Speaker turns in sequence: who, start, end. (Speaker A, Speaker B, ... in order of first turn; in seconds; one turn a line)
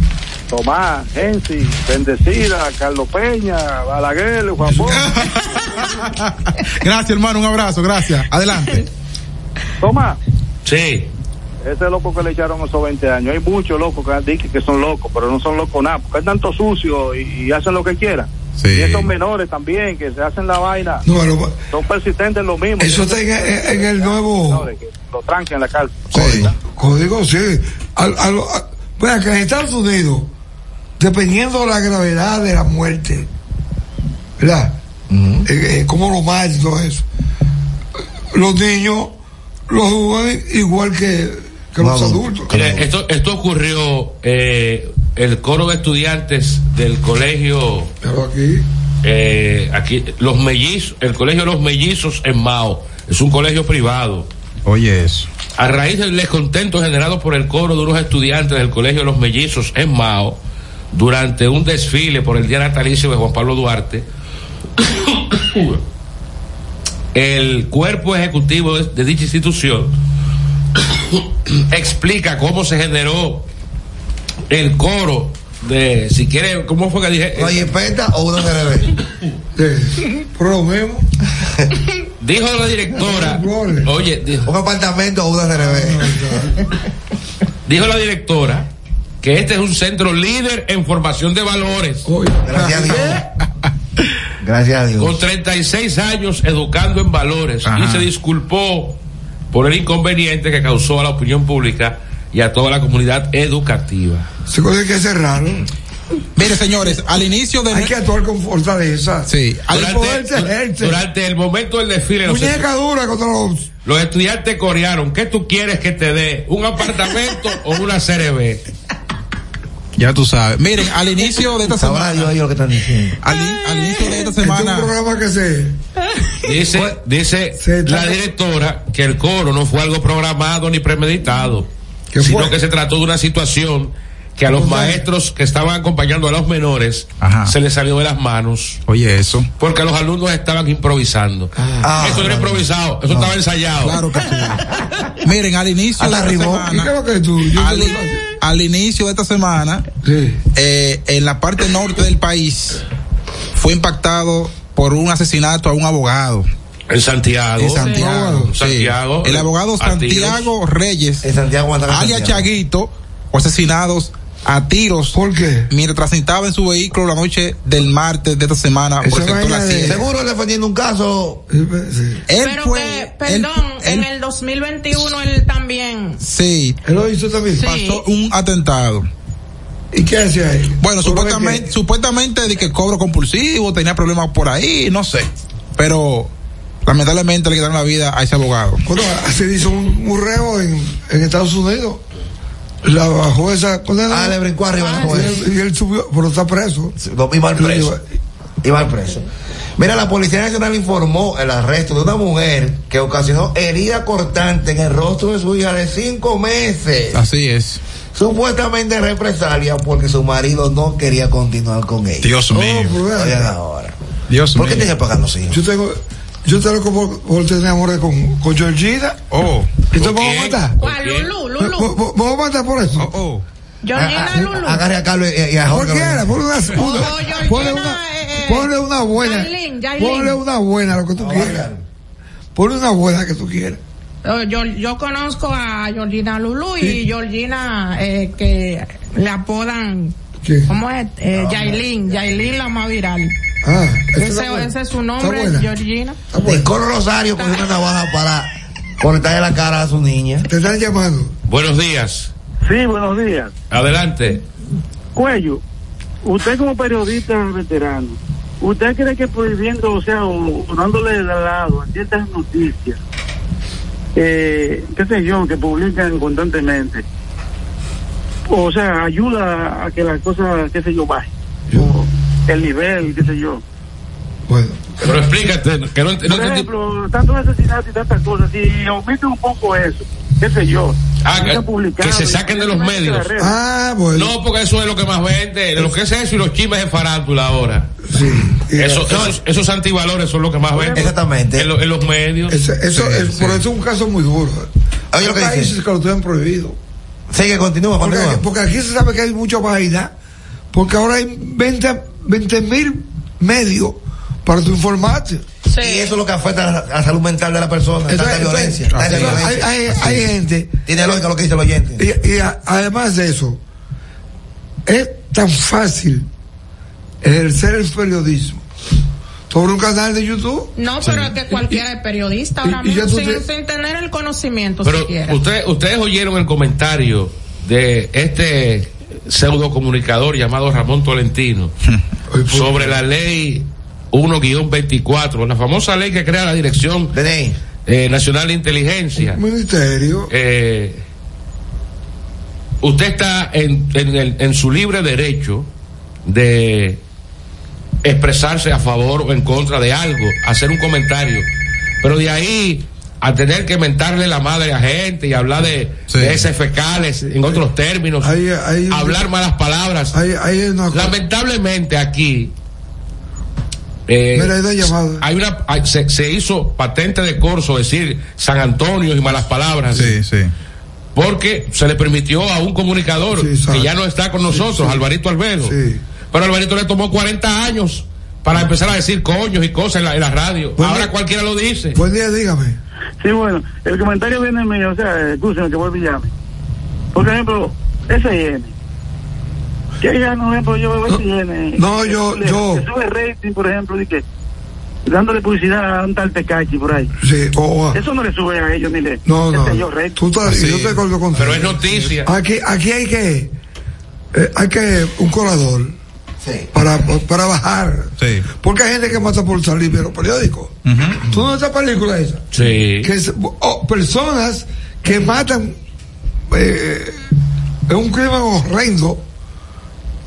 Speaker A: 0.5-5.1
Speaker B: 4.7-5.0
Speaker C: 4.9-8.9
Speaker A: 9.8-10.2
Speaker D: 10.7-11.1
Speaker A: 11.6-21.0
Speaker C: 18.6-19.1
Speaker B: 21.1-21.6
Speaker A: 21.7-26.6
Speaker B: 22.8-24.7
Speaker C: 26.1-26.5
Speaker B: 26.1-30.3
Speaker B: 31.0-33.3
Speaker B: 34.4-34.8
Speaker E: 35.1-35.5
Speaker B: 35.5-37.0
Speaker B: 38.3-39.2
Speaker B: 39.7-42.5
Speaker E: 41.8-42.9
Speaker D: 42.5-47.9
Speaker B: 48.0-48.6
Speaker D: 49.0-54.3
Speaker C: 54.6-55.3
Speaker D: 55.6-60.4
Speaker D: 60.9-64.0
Speaker D: 65.5-65.8
Speaker D: 67.1-69.9
Speaker D: 71.7-73.5
Speaker D: 74.5-77.7
Speaker E: 77.3-78.9
Speaker B: 79.5-81.1
Speaker D: 82.2-84.5
Speaker B: 83.0-83.9
Speaker E: 84.4-86.2
Speaker B: 85.6-86.6
Speaker D: 87.7-88.7
Speaker D: 89.2-92.1
Speaker B: 92.0-93.3
Speaker E: 92.4-93.2
Speaker E: 94.4-95.2
Speaker D: 95.0-99.0
Speaker C: 97.6-98.1
Speaker D: 99.5-104.3
Speaker B: 104.5-105.7
Speaker C: 106.4-107.9
Speaker B: 107.7-111.0
Speaker C: 109.3-110.0
Speaker D: 109.7-112.7
Speaker B: 112.2-113.7
Speaker D: 113.8-118.6
Speaker C: 120.0-122.3
Speaker E: 121.8-123.2
Speaker C: 123.2-124.9
Speaker B: 124.4-125.8
Speaker D: 126.4-138.8
Speaker B: 126.7-127.0
Speaker B: 127.6-128.3
Speaker B: 132.1-132.6
Speaker B: 134.5-135.0
Speaker C: 137.2-137.6
Speaker C: 138.9-139.5
Speaker D: 139.6-144.0
Speaker B: 141.6-142.0
Speaker E: 141.8-143.3
Speaker C: 143.8-144.7
Speaker C: 145.2-146.9
Speaker E: 146.0-146.7
Speaker B: 146.7-148.3
Speaker C: 147.5-149.9
Speaker B: 150.0-150.4
Speaker C: 150.5-152.8
Speaker C: 153.5-156.5
Speaker D: 156.9-160.5
Speaker C: 157.6-161.2
Speaker B: 157.8-158.5
Speaker E: 161.2-162.5
Speaker C: 161.9-170.1
Speaker B: 165.1-165.7
Speaker B: 169.0-170.0
Speaker E: 169.9-171.4
Speaker B: 171.5-172.2
Speaker C: 172.3-174.1
Speaker F: 172.4-176.2
Speaker C: 176.2-176.8
Speaker B: 176.8-177.7
Speaker F: 177.6-178.0
Speaker C: 177.6-179.1
Speaker B: 179.9-181.7
Speaker C: 180.8-186.3
Speaker C: 186.8-188.8
Speaker B: 188.9-192.0
Speaker B: 192.8-194.4
Speaker E: 194.1-195.5
Speaker F: 194.8-195.4
Speaker B: 195.0-197.0
Speaker E: 197.0-197.9
Speaker B: 197.6-198.0
Speaker E: 198.6-199.2
Speaker E: 199.8-207.2
Speaker C: 207.1-207.8
Speaker E: 208.2-212.4
Speaker C: 212.2-213.0
Speaker B: 212.5-213.5
Speaker E: 213.1-213.9
Speaker C: 214.3-214.9
Speaker E: 214.6-215.6
Speaker B: 215.5-219.2
Speaker C: 219.3-219.7
Speaker B: 219.9-220.8
Speaker D: 220.0-221.3
Speaker F: 220.8-221.9
Speaker B: 221.6-223.1
Speaker C: 223.0-223.4
Speaker F: 223.8-224.8
Speaker E: 223.9-226.3
Speaker B: 225.7-231.7
Speaker F: 226.8-230.4
Speaker E: 231.2-231.8
Speaker B: 232.6-233.8
Speaker F: 234.2-243.3
Speaker B: 240.4-240.7
Speaker E: 241.3-242.5
Speaker B: 243.6-245.7
Speaker F: 244.2-246.2
Speaker B: 246.3-246.8
Speaker E: 246.4-250.5
Speaker B: 250.5-251.3
Speaker D: 251.5-252.3
Speaker G: 252.7-253.5
Speaker D: 253.7-254.4
Speaker G: 255.2-255.6
Speaker G: 256.2-263.0
Speaker G: 264.2-267.0
Speaker G: 268.5-273.6
Speaker B: 274.5-275.1
Speaker D: 275.0-276.7
Speaker G: 276.2-283.6
Speaker D: 281.2-283.3
Speaker B: 283.4-284.3
Speaker D: 284.1-287.9
Speaker B: 288.1-289.3
Speaker D: 288.8-292.6
Speaker E: 289.1-289.3
Speaker E: 290.8-291.7
Speaker B: 292.5-296.8
Speaker C: 292.9-293.6
Speaker E: 295.1-295.8
Speaker E: 297.3-298.4
Speaker B: 298.0-300.1
Speaker B: 300.7-305.4
Speaker F: 305.7-306.1
Speaker E: 305.8-310.3
Speaker B: 308.1-311.2
Speaker C: 308.9-309.5
Speaker E: 310.9-312.0
Speaker B: 312.0-313.6
Speaker B: 314.9-316.3
Speaker B: 317.2-318.6
Speaker B: 319.5-320.7
Speaker F: 320.8-325.4
Speaker C: 321.0-321.3
Speaker B: 322.6-323.4
Speaker D: 324.8-331.7
Speaker B: 332.3-333.0
Speaker D: 332.5-337.1
Speaker E: 337.1-337.6
Speaker D: 337.9-339.4
Speaker B: 339.2-340.3
Speaker D: 340.3-341.0
Speaker D: 342.8-345.7
Speaker D: 346.3-347.0
Speaker D: 348.0-351.5
Speaker D: 352.0-358.3
Speaker C: 356.1-356.5
Speaker B: 358.2-359.3
Speaker D: 358.9-360.2
Speaker B: 360.1-361.2
Speaker D: 360.9-362.5
Speaker D: 364.1-370.1
Speaker B: 364.3-365.2
Speaker C: 369.9-370.5
Speaker D: 371.1-375.8
Speaker B: 373.3-375.1
Speaker B: 375.6-376.0
Speaker D: 376.3-382.0
Speaker B: 380.8-381.1
Speaker B: 381.9-382.8
Speaker G: 383.2-386.3
Speaker G: 387.1-388.7
Speaker G: 390.0-394.2
Speaker B: 391.8-392.9
Speaker G: 395.1-397.1
Speaker B: 397.2-398.0
Speaker G: 397.9-400.2
Speaker B: 399.2-403.5
Speaker C: 400.5-401.0
Speaker D: 401.4-402.3
Speaker B: 404.3-406.0
Speaker E: 406.4-406.7
Speaker B: 406.7-412.5
Speaker C: 408.2-408.5
Speaker C: 410.9-411.3
Speaker D: 412.5-413.1
Speaker B: 413.0-415.8
Speaker B: 416.5-417.2
Speaker B: 417.9-419.2